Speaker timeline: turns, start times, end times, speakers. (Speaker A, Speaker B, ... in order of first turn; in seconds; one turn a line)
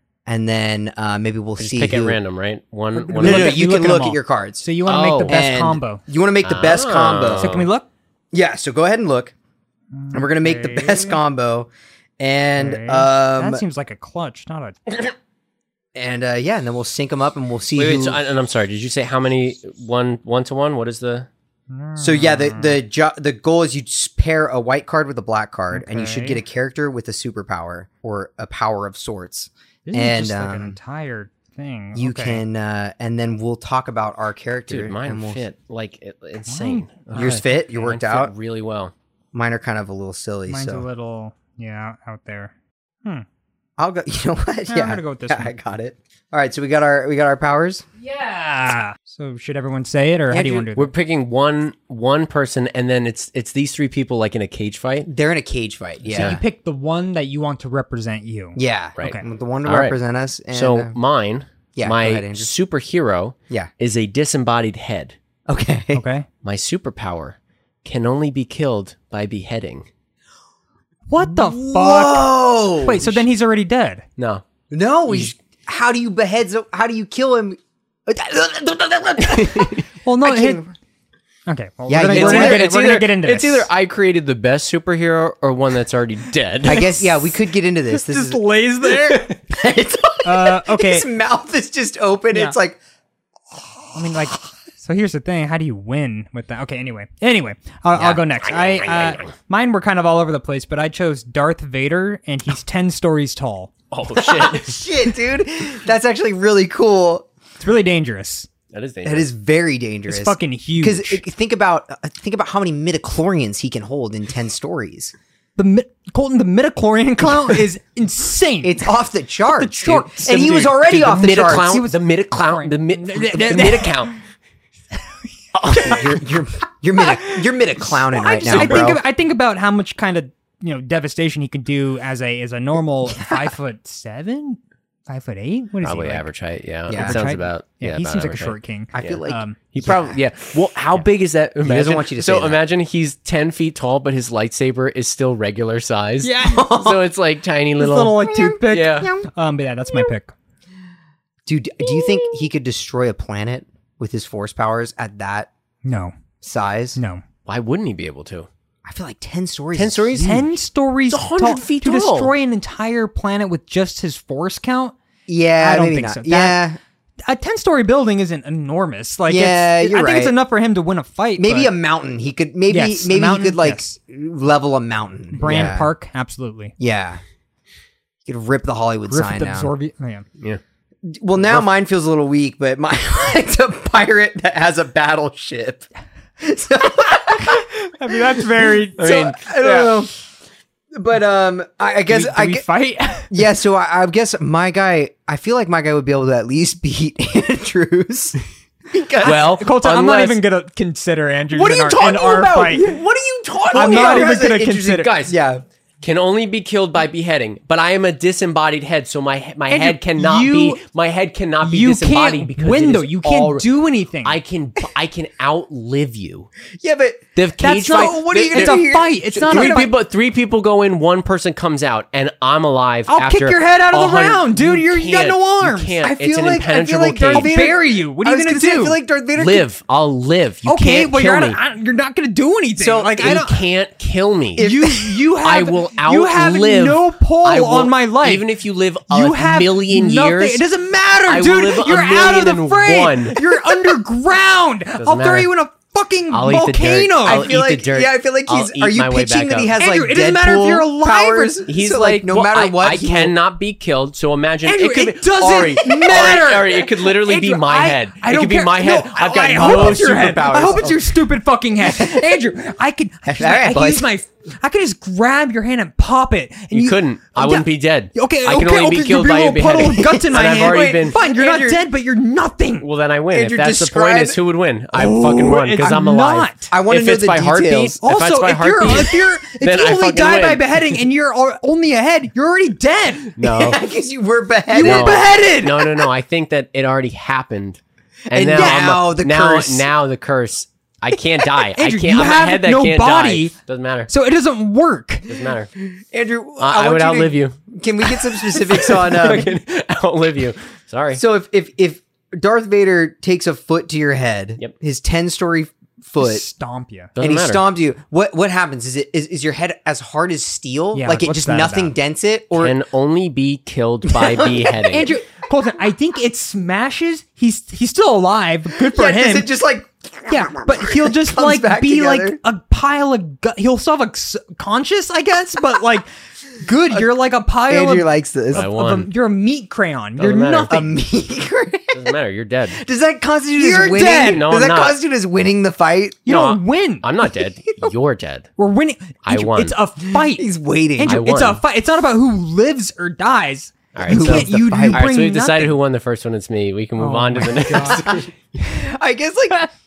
Speaker A: 0.3-2.2
Speaker B: 1.6-3.6
Speaker C: 3.0-6.0
Speaker A: 3.2-4.7
Speaker B: 4.9-5.4
Speaker A: 5.2-7.5
Speaker B: 6.4-7.7
Speaker C: 7.4-7.9
Speaker A: 8.3-9.3
Speaker C: 9.9-11.2
Speaker A: 10.1-13.6
Speaker C: 12.6-14.8
Speaker A: 15.9-18.2
Speaker B: 17.8-21.3
Speaker C: 21.7-22.8
Speaker A: 22.0-30.8
Speaker C: 25.7-26.4
Speaker C: 29.9-32.4
Speaker A: 31.9-35.5
Speaker B: 34.7-38.9
Speaker C: 36.5-37.4
Speaker A: 37.1-38.3
Speaker A: 39.3-40.9
Speaker C: 40.5-42.5
Speaker A: 43.8-47.8
Speaker C: 44.7-45.5
Speaker C: 48.0-50.9
Speaker A: 50.3-50.7
Speaker B: 50.7-55.1
Speaker A: 55.1-56.4
Speaker C: 56.1-59.2
Speaker B: 56.1-56.4
Speaker A: 58.6-60.9
Speaker B: 59.0-60.0
Speaker B: 60.5-65.2
Speaker A: 61.8-62.5
Speaker A: 65.5-66.0
Speaker C: 65.9-66.3
Speaker B: 66.4-69.9
Speaker C: 71.1-74.0
Speaker A: 71.2-73.2
Speaker B: 74.2-74.4
Speaker A: 74.7-80.7
Speaker B: 79.3-79.8
Speaker C: 80.0-80.6
Speaker C: 81.5-83.7
Speaker A: 81.9-82.7
Speaker B: 82.1-86.9
Speaker A: 86.6-88.4
Speaker C: 86.7-87.3
Speaker C: 87.9-89.3
Speaker A: 89.3-92.8
Speaker C: 90.2-91.1
Speaker C: 94.0-103.7
Speaker B: 98.0-99.3
Speaker B: 103.9-104.8
Speaker A: 104.2-107.3
Speaker C: 107.6-108.5
Speaker B: 108.7-109.3
Speaker A: 109.0-115.1
Speaker C: 110.1-111.2
Speaker C: 115.6-118.9
Speaker A: 118.6-121.8
Speaker C: 119.5-120.6
Speaker B: 120.2-124.2
Speaker C: 121.4-124.1
Speaker B: 125.6-126.0
Speaker A: 125.6-129.0
Speaker C: 125.7-126.0
Speaker C: 127.0-127.4
Speaker C: 128.1-136.3
Speaker B: 128.5-128.9
Speaker A: 133.2-133.5
Speaker B: 135.8-139.2
Speaker A: 136.9-137.2
Speaker C: 136.9-139.6
Speaker A: 138.9-140.2
Speaker B: 139.7-149.1
Speaker A: 141.6-142.6
Speaker C: 146.2-146.7
Speaker A: 146.4-147.0
Speaker C: 147.8-150.3
Speaker A: 148.2-149.3
Speaker A: 151.5-155.5
Speaker C: 155.8-156.1
Speaker A: 156.4-157.0
Speaker C: 157.0-157.2
Speaker B: 157.5-158.5
Speaker A: 158.8-160.3
Speaker B: 159.7-160.5
Speaker C: 160.2-164.9
Speaker B: 161.1-162.3
Speaker A: 165.3-166.8
Speaker C: 165.6-166.6
Speaker C: 167.3-171.7
Speaker A: 169.3-170.3
Speaker A: 171.4-175.9
Speaker C: 172.7-174.0
Speaker C: 175.3-176.8
Speaker A: 176.8-177.2
Speaker A: 178.3-179.7
Speaker C: 179.1-180.2
Speaker A: 181.0-185.9
Speaker A: 186.4-190.1
Speaker C: 187.4-189.2
Speaker B: 189.0-190.0
Speaker A: 190.9-192.7
Speaker C: 192.1-193.3
Speaker A: 193.3-198.4
Speaker A: 198.9-199.5
Speaker B: 199.2-200.4
Speaker C: 199.2-202.9
Speaker B: 201.5-205.4
Speaker A: 203.7-205.6
Speaker C: 203.7-205.1
Speaker B: 206.0-213.7
Speaker C: 209.7-210.8
Speaker C: 211.6-214.4
Speaker B: 214.2-216.5
Speaker A: 216.8-217.3
Speaker B: 217.4-227.7
Speaker C: 217.6-219.9
Speaker A: 217.8-219.9
Speaker C: 223.1-225.9
Speaker A: 226.0-229.7
Speaker C: 227.3-229.0
Speaker B: 229.4-231.6
Speaker C: 230.7-233.6
Speaker A: 232.8-233.2
Speaker B: 233.2-234.7
Speaker A: 234.6-235.2
Speaker C: 234.6-238.5
Speaker B: 235.4-240.6
Speaker C: 239.1-247.5
Speaker B: 241.3-243.4
Speaker B: 245.0-245.5
Speaker B: 246.3-249.7
Speaker A: 247.2-253.3
Speaker C: 249.8-251.6
Speaker B: 251.7-261.0
Speaker C: 254.7-272.9
Speaker A: 255.9-256.5
Speaker A: 259.6-260.9
Speaker A: 261.9-262.2
Speaker A: 263.2-264.1
Speaker B: 266.7-271.2
Speaker A: 270.0-271.8
Speaker B: 272.8-281.0
Speaker A: 273.3-274.4
Speaker C: 274.9-276.7
Speaker A: 276.7-278.0
Speaker C: 278.0-283.3
Speaker B: 283.4-283.8
Speaker A: 283.4-285.3
Speaker C: 284.7-286.0
Speaker B: 284.8-294.1
Speaker A: 288.3-289.9
Speaker C: 288.6-288.9
Speaker C: 291.6-293.6
Speaker C: 294.1-295.3
Speaker B: 295.3-295.7
Speaker A: 295.8-299.6
Speaker B: 296.6-297.6
Speaker B: 298.5-301.2
Speaker A: 301.1-306.4
Speaker C: 306.2-307.1
Speaker B: 307.2-307.6
Speaker A: 307.2-312.8
Speaker C: 310.9-311.9
Speaker B: 312.6-315.1
Speaker A: 314.1-314.9
Speaker C: 314.9-319.5
Speaker A: 318.8-322.4
Speaker C: 320.3-330.9
Speaker A: 327.7-328.7
Speaker B: 328.5-329.1
Speaker B: 330.2-330.8
Speaker A: 330.7-332.2
Speaker B: 331.9-332.8
Speaker A: 332.7-336.3
Speaker C: 333.6-334.5
Speaker B: 334.2-335.0
Speaker C: 336.3-337.1
Speaker B: 336.3-338.5
Speaker C: 338.6-345.8
Speaker B: 339.2-339.8
Speaker A: 340.1-341.2
Speaker B: 341.1-341.6
Speaker B: 343.9-348.3
Speaker A: 344.1-345.1
Speaker C: 347.0-348.2
Speaker A: 347.8-349.7